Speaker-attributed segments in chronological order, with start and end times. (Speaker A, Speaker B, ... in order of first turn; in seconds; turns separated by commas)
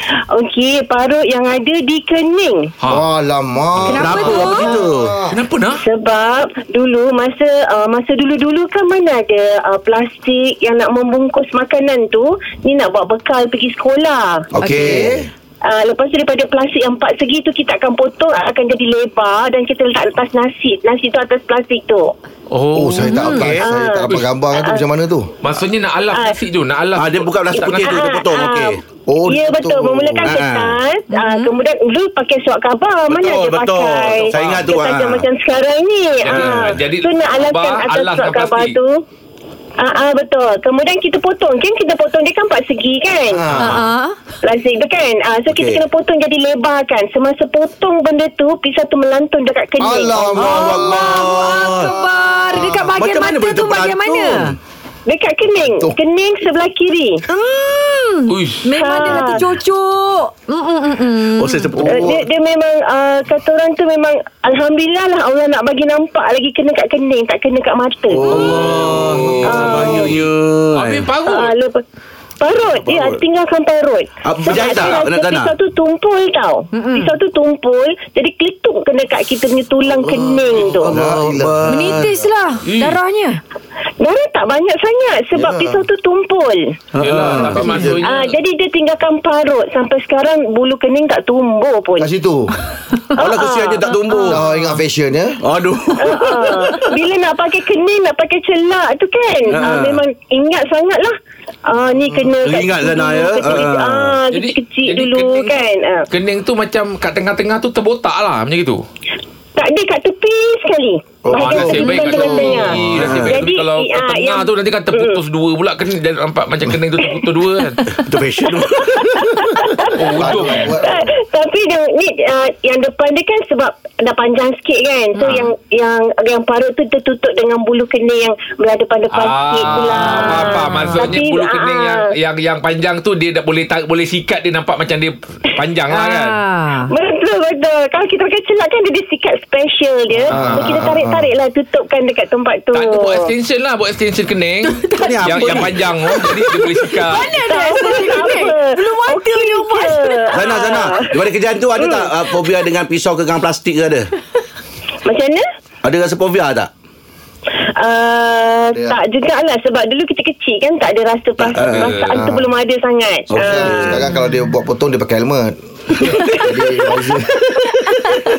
Speaker A: 0.3-2.7, Speaker B: 2.9-5.3, Speaker C: 3.8-4.1, Speaker D: 3.9-4.7, Speaker E: 3.9-5.2, Speaker C: 5.3-5.8, Speaker A: 5.8-14.5, Speaker E: 14.5-15.3, Speaker B: 14.6-15.2, Speaker A: 15.6-22.1, Speaker C: 22.5-23.4, Speaker B: 22.7-25.3, Speaker D: 23.0-23.4, Speaker E: 23.3-23.6, Speaker A: 23.4-24.8, Speaker C: 25.4-27.3, Speaker E: 27.0-28.8, Speaker A: 27.6-28.7, Speaker B: 29.1-30.4, Speaker A: 29.2-39.0, Speaker E: 30.2-30.8, Speaker D: 31.1-31.5, Speaker E: 33.1-35.2, Speaker C: 34.4-34.6, Speaker C: 36.2-38.8, Speaker E: 36.4-36.8, Speaker A: 39.8-43.6, Speaker B: 43.3-43.9, Speaker D: 43.5-44.2, Speaker A: 44.4-50.3, Speaker E: 45.5-45.8, Speaker B: 49.8-51.7, Speaker E: 50.4-51.9, Speaker D: 50.4-54.5, Speaker E: 52.5-54.6, Speaker A: 55.1-57.2, Speaker D: 57.3-61.7, Speaker C: 58.3-58.7, Speaker A: 58.8-59.4, Speaker E: 61.4-62.2, Speaker A: 61.9-68.4, Speaker E: 68.1-71.1, Speaker D: 68.3-68.7, Speaker B: 68.5-70.0, Speaker C: 69.2-70.1, Speaker A: 69.4-70.2, Speaker C: 70.7-71.5, Speaker A: 71.2-71.8, Speaker A: 72.4-80.9, Speaker E: 72.8-73.2, Speaker E: 74.2-75.5, Speaker D: 76.7-77.1, Speaker E: 80.3-82.1, Speaker B: 80.9-82.1, Speaker D: 81.7-83.4, Speaker C: 82.7-83.0, Speaker A: 84.0-86.6, Speaker B: 85.4-85.8, Speaker E: 87.0-87.7, Speaker C: 87.0-88.4, Speaker B: 87.1-88.0, Speaker A: 88.0-92.1, Speaker B: 92.0-92.6, Speaker A: 93.2-94.3, Speaker E: 93.2-94.4, Speaker B: 94.3-95.4, Speaker E: 95.4-96.8, Speaker A: 96.0-106.0, Speaker E: 99.5-100.0, Speaker E: 102.4-104.2, Speaker C: 104.3-108.8, Speaker A: 109.6-115.2, Speaker B: 111.2-113.1, Speaker C: 111.3-118.0, Speaker E: 112.8-113.4, Speaker E: 117.9-119.6, Speaker A: 118.6-132.1, Speaker C: 119.9-120.8, Speaker B: 119.9-121.1, Speaker C: 129.1-136.4, Speaker D: 129.9-131.1, Speaker D: 135.9-136.9, Speaker A: 136.9-143.3, Speaker B: 140.3-141.3, Speaker C: 142.7-147.3, Speaker D: 144.7-145.1, Speaker E: 145.0-145.8, Speaker D: 146.1-150.2, Speaker A: 147.4-151.1, Speaker E: 150.3-154.1, Speaker A: 151.8-152.1, Speaker A: 155.1-155.4, Speaker E: 155.8-156.7, Speaker A: 157.8-164.0, Speaker E: 161.4-162.1, Speaker C: 161.6-162.2, Speaker B: 162.1-162.5, Speaker E: 163.3-164.0, Speaker B: 163.3-165.5, Speaker B: 166.1-167.7